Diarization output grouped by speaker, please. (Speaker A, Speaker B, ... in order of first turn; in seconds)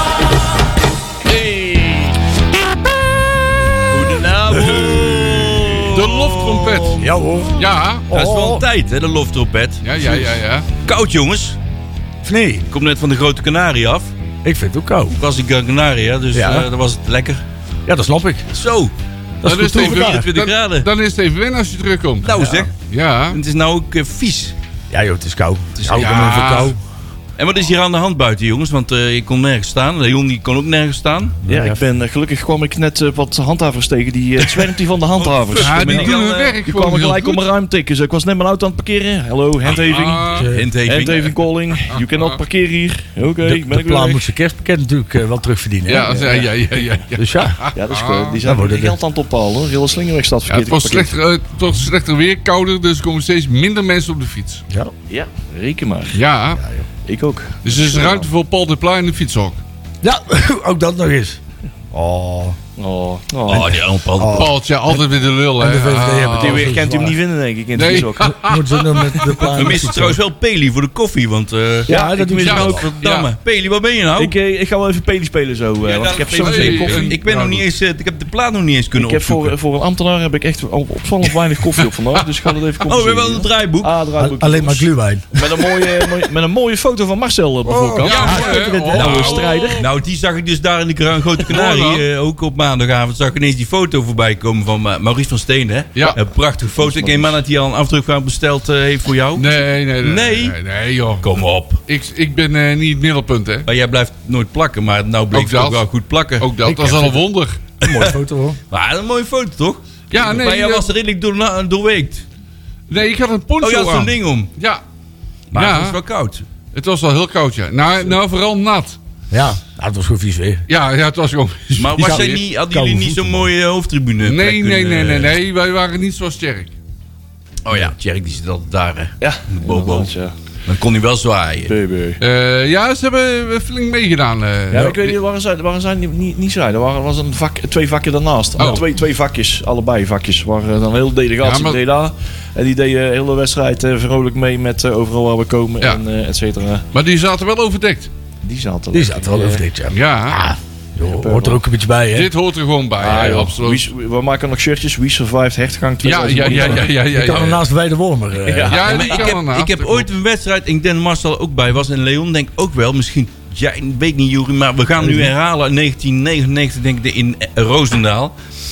Speaker A: 1.3-2.1, 3.9-7.1, 8.1-10.2, 10.8-11.6, 12.7-14.1, 15.1-17.4, 18.5-18.9, 19.9-20.9, 22.2-22.7, 23.3-24.5, 25.8-26.3, 27.4-31.4, 35.2-36.2, 40.4-41.3, 63.5-64.5, 69.5-71.9, 72.5-74.3, 75.8-79.5, 82.8-83.9, 89.0-100.5, 101.2-101.8, 103.7-106.5, 107.8-108.1, 108.7-112.2, 113.6-114.5, 115.5-116.4, 121.8-125.4, 127.6-130.1, 130.7-131.7, 158.8-168.4
Speaker B: 4.5-5.8, 7.0-8.7, 12.2-12.7, 14.4-15.2, 16.3-16.7, 17.9-18.5, 19.4-20.3, 24.9-26.8, 31.4-31.8, 40.3-40.7, 43.4-46.2, 47.1-47.6, 48.4-49.0, 56.5-56.9, 60.0-61.4, 61.9-62.6, 63.5-65.0, 65.6-67.2, 68.4-70.2, 71.9-72.9, 84.2-85.6, 87.6-89.7, 106.6-107.2, 107.8-108.6, 119.3-120.6, 121.8-123.5, 148.9-152.3, 157.1-158.9
Speaker C: 5.9-7.1, 7.6-8.1, 9.8-10.7, 19.4-23.4, 25.9-26.8, 35.5-37.5, 39.7-40.5, 41.9-42.3, 45.9-48.4, 50.5-54.6, 56.1-56.6, 57.6-59.6, 64.3-66.7, 67.7-69.8, 72.4-73.3, 76.4-77.6, 88.0-89.9, 91.4-92.0, 99.3-101.2, 101.9-103.7, 105.3-105.8, 106.4-107.7, 110.1-110.9, 112.9-114.8, 115.5-116.0, 116.7-119.0, 120.7-122.4, 124.2-126.7, 132.2-135.2, 138.6-138.8, 141.4-141.8, 146.9-148.1, 149.9-150.4, 152.1-153.9, 156.0-157.6, 158.7-160.1
Speaker D: 31.5-44.2, 46.0-46.5, 47.7-51.1, 55.1-56.2, 57.0-58.3, 62.8-63.7, 66.4-68.4, 71.9-72.8, 74.2-77.2, 78.9-89.8, 96.7-97.4, 129.2-130.3, 131.6-132.2, 134.7-146.8, 148.4-149.6, 151.0-151.6, 153.0-157.0, 158.4-159.2, 165.0-165.3